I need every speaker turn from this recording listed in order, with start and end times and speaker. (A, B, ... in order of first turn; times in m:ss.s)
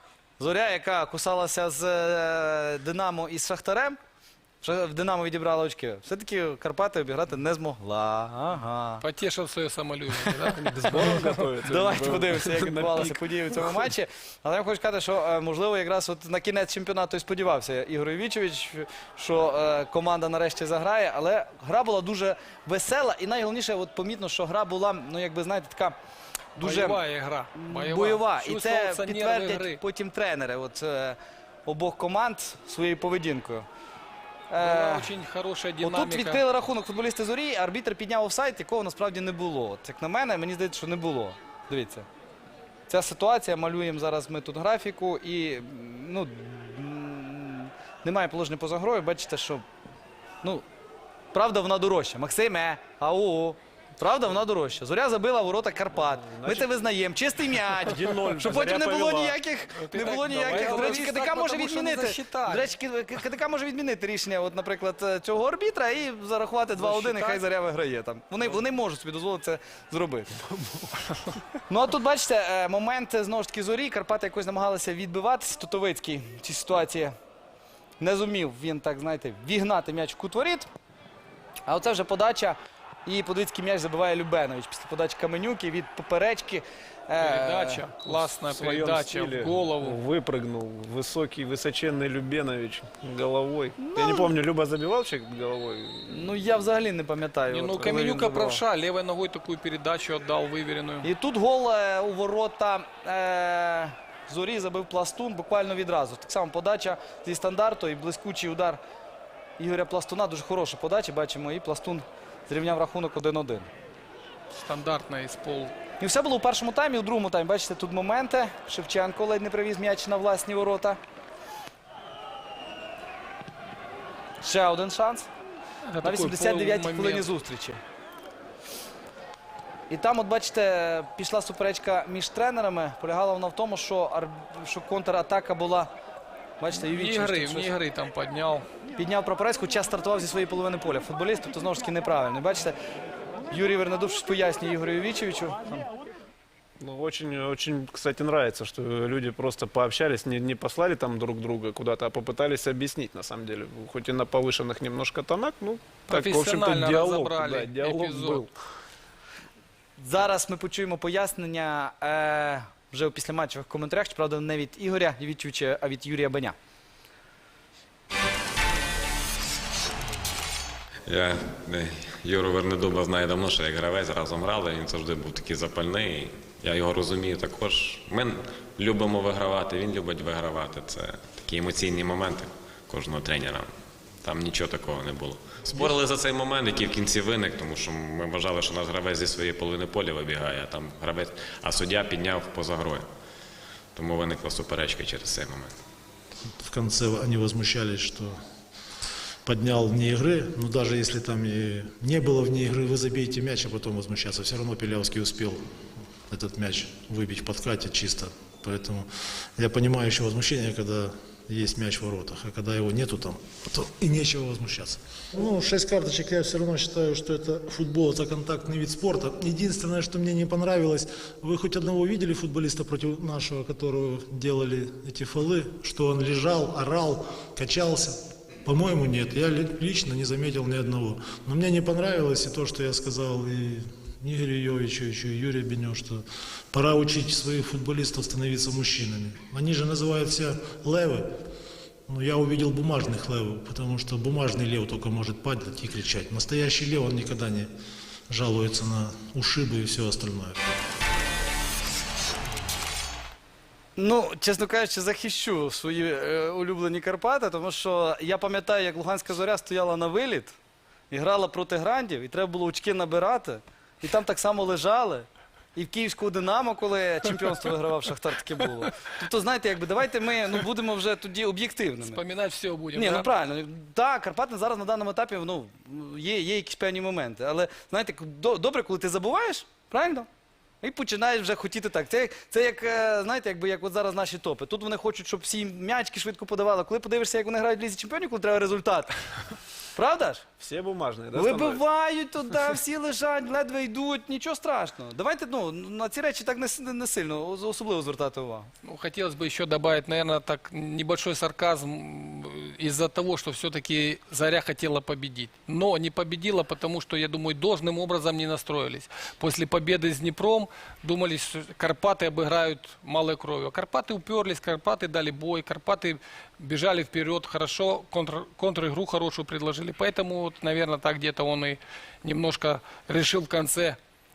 0:00.4-0:04.0 A
0:04.6-0:09.0 A
0:09.0-0:11.5 B
0:10.6-0:13.6 C
0:11.6-0:26.0 A
0:26.6-0:27.0 A
0:26.6-0:29.8 B
0:27.6-0:33.6 A
0:34.5-0:35.1 A
0:34.6-0:36.4 B
0:35.8-0:42.0 A
0:42.9-0:49.6 A
0:51.3-1:10.3 A
0:56.3-0:56.6 C
0:57.9-0:59.3 C
0:59.7-1:02.7 B
1:06.8-1:07.4 B
1:10.5-1:11.1 C
1:11.7-1:17.1 A
1:18.0-1:20.7 A
1:21.7-1:27.9 A
1:27.2-1:30.0 B
1:28.3-1:36.1 C
1:33.8-1:34.3 A
1:36.1-1:38.6 A
1:37.5-1:41.1 B
1:41.0-1:48.8 A
1:49.6-1:53.7 A
1:54.6-1:55.7 B
1:56.0-2:01.0 A
2:04.4-2:05.3 A
2:05.9-2:07.3 B
2:06.0-2:07.8 A
2:09.9-2:15.9 A
2:16.6-2:17.7 A
2:16.7-2:18.7 B
2:19.0-2:22.8 A
2:23.5-2:25.8 A
2:26.8-2:38.5 C
2:36.1-2:38.4 B
2:40.0-2:46.6 A
2:51.1-3:03.7 D
3:04.2-3:13.0 D
3:13.9-3:15.7 D
3:16.6-3:18.4 E
3:19.4-3:25.6 E
3:26.3-4:01.3 E
4:02.1-4:07.7 E
4:08.3-4:10.6 E
4:14.0-4:20.6 A
4:21.1-4:32.2 A
4:32.0-4:33.3 B
4:32.9-4:40.3 A
4:40.8-4:49.1 A
4:49.9-4:50.5 A
4:50.6-4:51.8 C
4:51.3-4:58.7 A
4:58.8-5:24.0 B